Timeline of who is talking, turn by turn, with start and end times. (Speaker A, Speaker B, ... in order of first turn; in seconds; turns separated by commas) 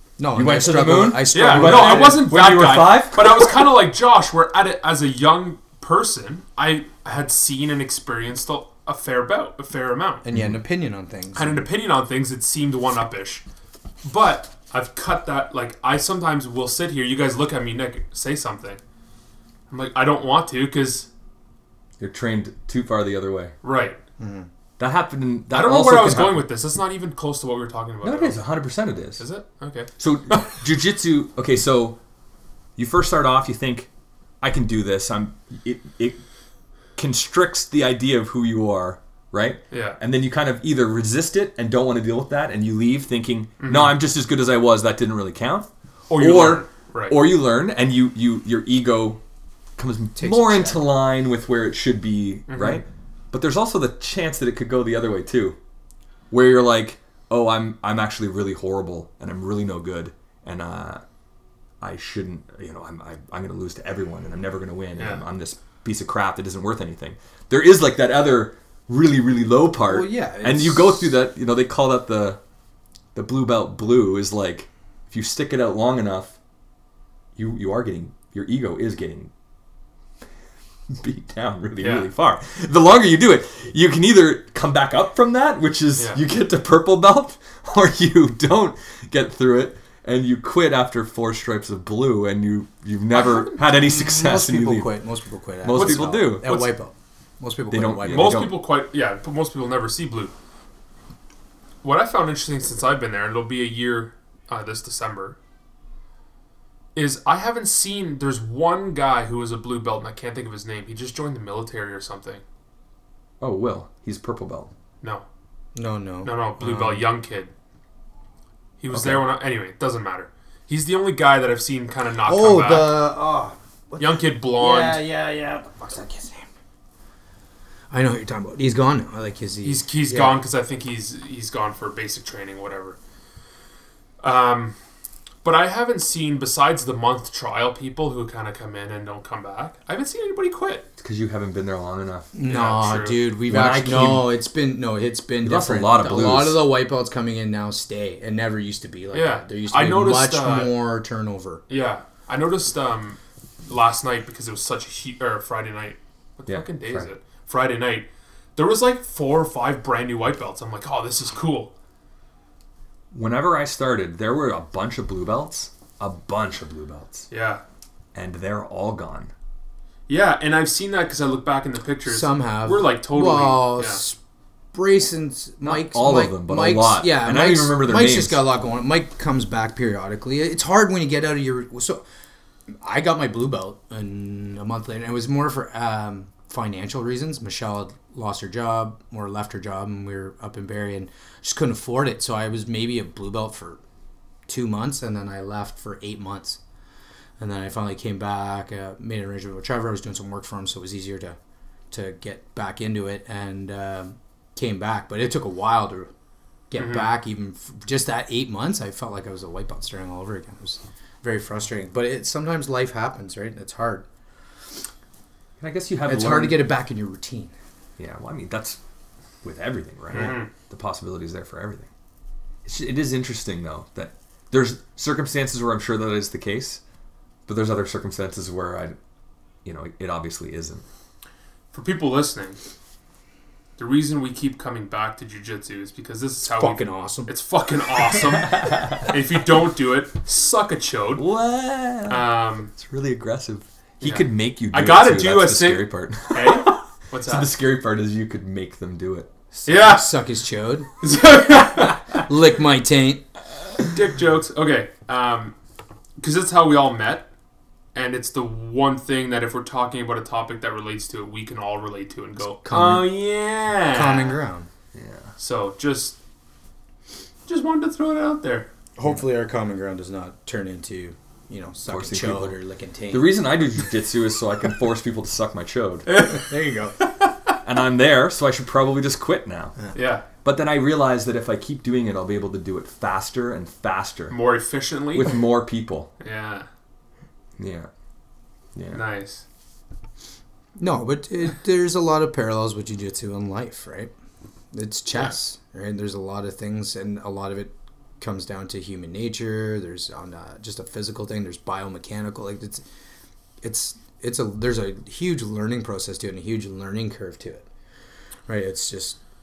Speaker A: 0.2-2.3, Speaker B: 0.3-3.7, Speaker C: 1.3-10.2, Speaker A: 10.2-11.6, Speaker B: 10.3-10.6, Speaker C: 11.3-13.4, Speaker C: 14.0-18.8, Speaker C: 19.7-21.1, Speaker B: 22.0-23.5, Speaker C: 23.6-24.0, Speaker A: 24.2-24.5, Speaker B: 24.8-26.4, Speaker C: 25.5-28.4, Speaker B: 28.0-29.2, Speaker C: 29.2-30.6, Speaker B: 30.0-32.0, Speaker B: 32.8-33.9, Speaker B: 34.4-36.2, Speaker B: 37.0-49.2, Speaker C: 39.7-40.0, Speaker C: 43.6-43.9, Speaker C: 46.1-47.2, Speaker B: 49.8-55.6, Speaker A: 50.1-50.8, Speaker C: 52.5-52.8, Speaker B: 56.3-61.0, Speaker B: 61.8-72.4, Speaker C: 65.0-65.2, Speaker A: 69.9-71.1, Speaker B: 73.1-76.4, Speaker B: 77.3-79.3, Speaker B: 80.9-94.9, Speaker C: 81.8-82.1, Speaker C: 93.1-93.8, Speaker A: 93.8-98.4, Speaker B: 95.6-96.5, Speaker C: 95.7-96.7, Speaker B: 97.7-98.5, Speaker C: 98.1-100.3, Speaker C: 101.8-105.4, Speaker C: 106.9-112.4, Speaker B: 113.4-114.7, Speaker A: 115.7-117.0, Speaker C: 116.2-117.5, Speaker C: 118.8-123.0, Speaker B: 118.9-119.2, Speaker A: 122.2-126.5, Speaker C: 124.0-125.0, Speaker A: 127.9-130.3, Speaker C: 129.6-133.0, Speaker C: 134.2-134.8, Speaker C: 135.4-140.8, Speaker B: 141.0-142.3, Speaker A: 142.3-151.6, Speaker C: 142.4-143.2, Speaker B: 143.5-144.3, Speaker B: 145.4-146.6, Speaker C: 149.1-150.7, Speaker C: 151.7-161.7, Speaker B: 156.5-157.1, Speaker B: 163.1-167.3, Speaker C: 167.3-167.6, Speaker B: 168.1-169.3, Speaker C: 170.1-174.0, Speaker A: 172.1-174.2, Speaker A: 174.7-182.0, Speaker B: 175.6-178.4, Speaker A: 182.8-193.8, Speaker A: 194.5-196.6, Speaker A: 197.4-201.4, Speaker A: 201.9-206.1, Speaker A: 206.7-214.0, Speaker C: 206.8-207.1, Speaker B: 215.6-216.6, Speaker A: 216.1-217.5, Speaker B: 218.0-218.8, Speaker B: 219.4-221.9, Speaker C: 220.1-220.5, Speaker B: 222.6-226.8, Speaker B: 227.5-229.0, Speaker B: 229.6-230.8, Speaker C: 231.7-232.6, Speaker C: 233.8-241.3, Speaker A: 236.5-237.3, Speaker B: 238.4-239.0, Speaker B: 241.2-250.0, Speaker C: 242.1-242.7, Speaker C: 244.0-247.5, Speaker C: 249.7-250.1, Speaker A: 249.8-253.2, Speaker C: 251.0-251.9, Speaker C: 253.8-255.5, Speaker C: 256.2-257.3, Speaker C: 257.9-264.4, Speaker A: 262.6-263.1, Speaker A: 263.9-264.7, Speaker B: 264.9-265.3, Speaker C: 265.4-266.1, Speaker C: 267.5-268.7, Speaker A: 269.0-273.3, Speaker B: 271.9-272.6, Speaker B: 273.1-276.1, Speaker C: 276.1-276.5, Speaker A: 276.3-277.0, Speaker B: 277.6-279.8, Speaker C: 279.9-280.2, Speaker B: 280.4-284.4, Speaker C: 284.3-285.4, Speaker B: 285.1-286.1, Speaker C: 286.2-286.7, Speaker B: 287.6-287.9, Speaker B: 288.7-289.0, Speaker C: 288.9-289.4, Speaker A: 290.8-294.1, Speaker A: 294.7-302.8, Speaker A: 303.6-307.7, Speaker A: 308.5-309.2